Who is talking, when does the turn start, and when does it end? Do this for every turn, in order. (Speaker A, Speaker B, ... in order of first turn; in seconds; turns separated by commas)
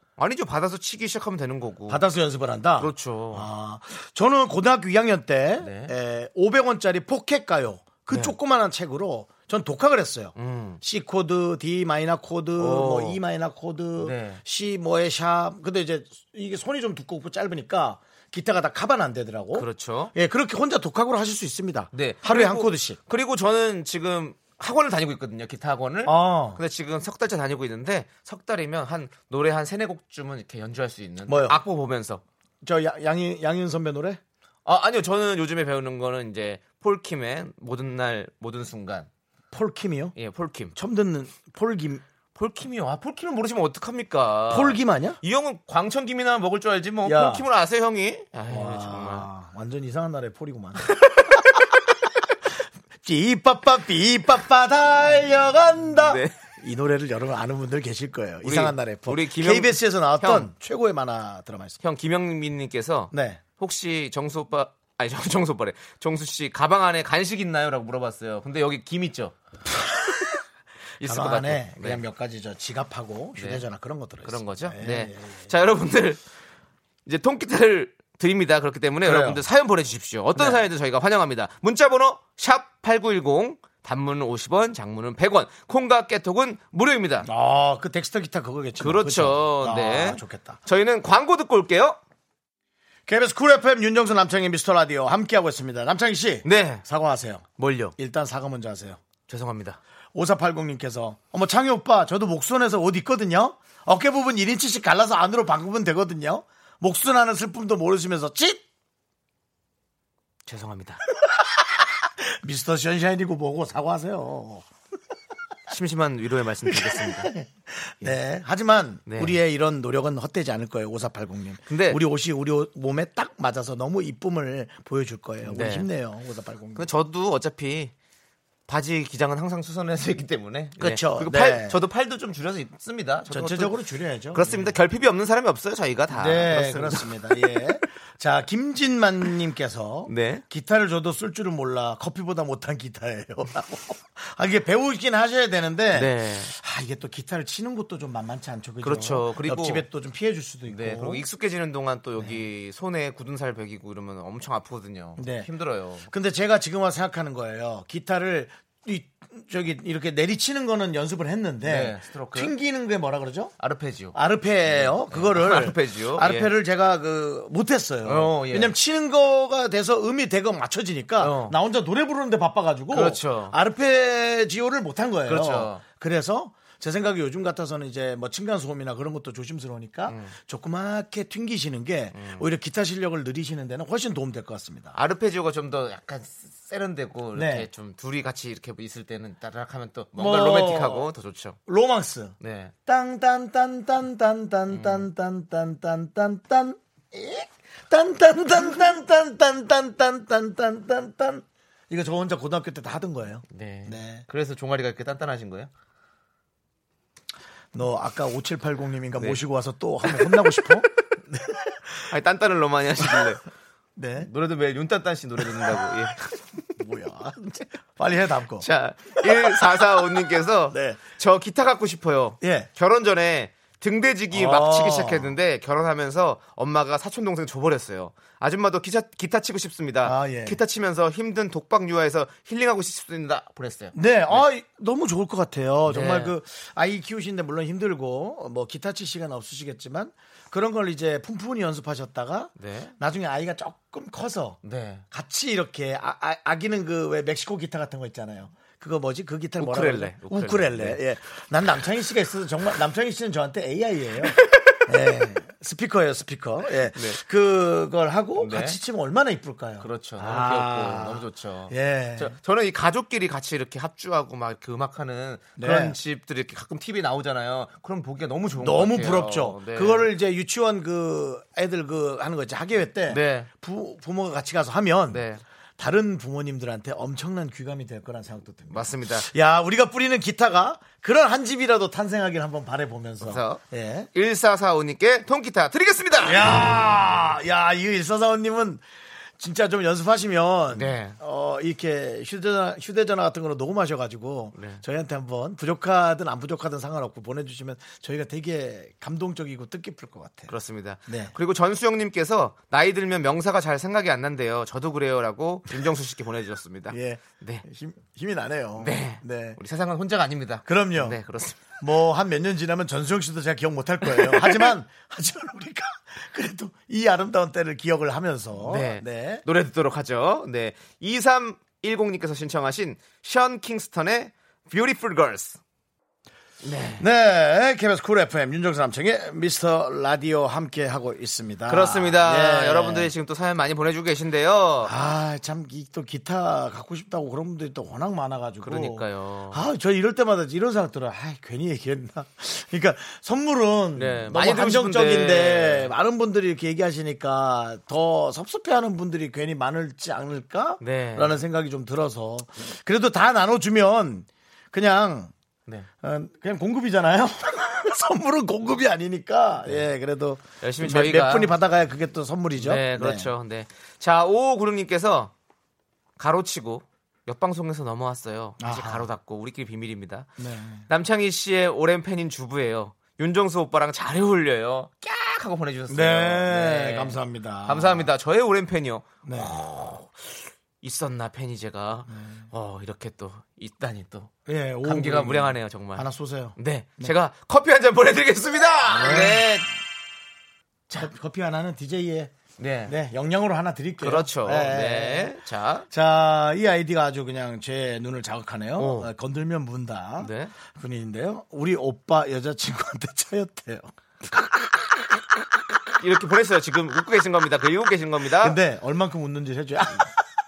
Speaker A: 0.2-2.0, Speaker B: 1.9-23.0, Speaker A: 2.8-3.5, Speaker A: 5.6-5.9, Speaker A: 10.3-10.8, Speaker A: 12.6-13.2, Speaker A: 14.0-14.4, Speaker A: 19.5-20.1, Speaker A: 21.9-32.2, Speaker B: 26.0-26.6, Speaker B: 31.2-31.6, Speaker B: 32.6-34.2, Speaker A: 34.6-39.1, Speaker B: 39.5-40.1, Speaker A: 40.1-40.7, Speaker B: 40.7-42.0, Speaker A: 42.3-49.3, Speaker B: 44.5-45.2, Speaker B: 47.0-47.4, Speaker B: 48.5-51.6, Speaker B: 53.0-61.8, Speaker A: 56.0-56.3, Speaker A: 58.4-60.5, Speaker A: 61.8-69.3, Speaker B: 63.1-63.4, Speaker B: 69.8-70.3, Speaker A: 71.0-72.0, Speaker B: 71.0-75.5, Speaker A: 73.4-73.6, Speaker A: 74.2-76.2, Speaker A: 77.0-87.3, Speaker B: 79.0-79.4, Speaker B: 80.3-80.6, Speaker B: 87.2-90.6, Speaker A: 88.8-92.0, Speaker B: 93.1-99.0, Speaker A: 96.4-96.8, Speaker A: 97.6-97.9, Speaker A: 99.3-99.8, Speaker B: 100.1-108.6, Speaker A: 110.5-111.0, Speaker B: 111.3-114.7, Speaker A: 115.7-117.3, Speaker B: 116.7-126.8, Speaker A: 119.1-119.4, Speaker A: 121.7-122.0, Speaker A: 125.4-125.9, Speaker A: 126.8-127.9, Speaker A: 128.7-133.7, Speaker B: 130.8-131.8, Speaker B: 133.3-134.7, Speaker A: 134.3-137.8, Speaker B: 136.1-151.2, Speaker A: 140.1-140.4, Speaker A: 145.9-146.5, Speaker A: 148.8-149.8, Speaker A: 150.7-156.1, Speaker B: 155.2-155.5, Speaker B: 156.1-163.5, Speaker A: 161.6-162.5, Speaker A: 163.6-166.5, Speaker B: 164.1-184.9, Speaker A: 168.0-168.7, Speaker A: 171.2-171.6, Speaker A: 172.9-173.6, Speaker A: 175.2-175.8, Speaker A: 180.1-180.3, Speaker A: 182.1-182.5, Speaker A: 184.9-191.6, Speaker B: 187.3-187.7, Speaker B: 190.1-191.1, Speaker B: 191.7-204.2, Speaker A: 192.4-192.7, Speaker A: 194.7-195.1, Speaker A: 203.5-205.7, Speaker B: 207.7-212.1, Speaker A: 210.0-210.5, Speaker A: 212.1-213.4, Speaker B: 213.0-213.3, Speaker B: 213.9-214.3, Speaker A: 214.2-216.2, Speaker B: 215.4-215.9, Speaker B: 216.8-220.1, Speaker A: 218.6-234.4, Speaker B: 220.7-221.0, Speaker B: 222.4-222.7, Speaker B: 224.3-225.3, Speaker B: 230.0-230.6, Speaker B: 233.9-244.6, Speaker A: 235.9-236.3, Speaker A: 242.6-242.9, Speaker A: 244.6-245.0, Speaker B: 245.1-262.4, Speaker A: 249.6-251.0, Speaker A: 254.4-254.8, Speaker A: 256.9-257.2, Speaker A: 258.4-258.8, Speaker A: 259.8-270.1, Speaker B: 265.6-266.0, Speaker B: 268.6-275.2, Speaker A: 273.1-273.5, Speaker A: 275.1-275.4, Speaker B: 275.8-284.1, Speaker A: 278.7-279.3, Speaker A: 283.2-283.6, Speaker A: 284.1-286.5, Speaker B: 286.2-288.8, Speaker B: 289.4-300.5, Speaker A: 290.7-291.2, Speaker A: 294.6-294.8, Speaker A: 300.5-307.6, Speaker B: 301.1-301.3, Speaker B: 306.9-309.6, Speaker A: 308.8-311.7, Speaker B: 310.6-311.2, Speaker B: 311.8-319.4, Speaker A: 314.2-314.7, Speaker A: 318.6-325.6, Speaker A: 326.6-327.1, Speaker B: 327.0-333.1, Speaker A: 331.7-334.9, Speaker B: 334.8-355.3, Speaker A: 338.6-339.6, Speaker A: 343.9-345.9, Speaker A: 350.8-351.4, Speaker B: 356.0-363.3, Speaker A: 360.6-361.5, Speaker A: 362.6-365.3, Speaker A: 366.2-370.3, Speaker B: 368.6-369.1, Speaker B: 370.4-370.9, Speaker A: 370.9-384.3, Speaker B: 375.9-378.1, Speaker B: 379.2-379.5, Speaker B: 382.1-382.5, Speaker B: 384.4-387.1, Speaker A: 384.8-389.7, Speaker B: 388.9-389.5, Speaker B: 391.0-392.3, Speaker A: 392.6-392.9, Speaker B: 392.9-395.3, Speaker A: 394.0-395.9, Speaker B: 395.9-405.9, Speaker A: 398.8-399.1, Speaker A: 400.2-400.5, Speaker A: 406.0-408.6, Speaker B: 408.4-410.1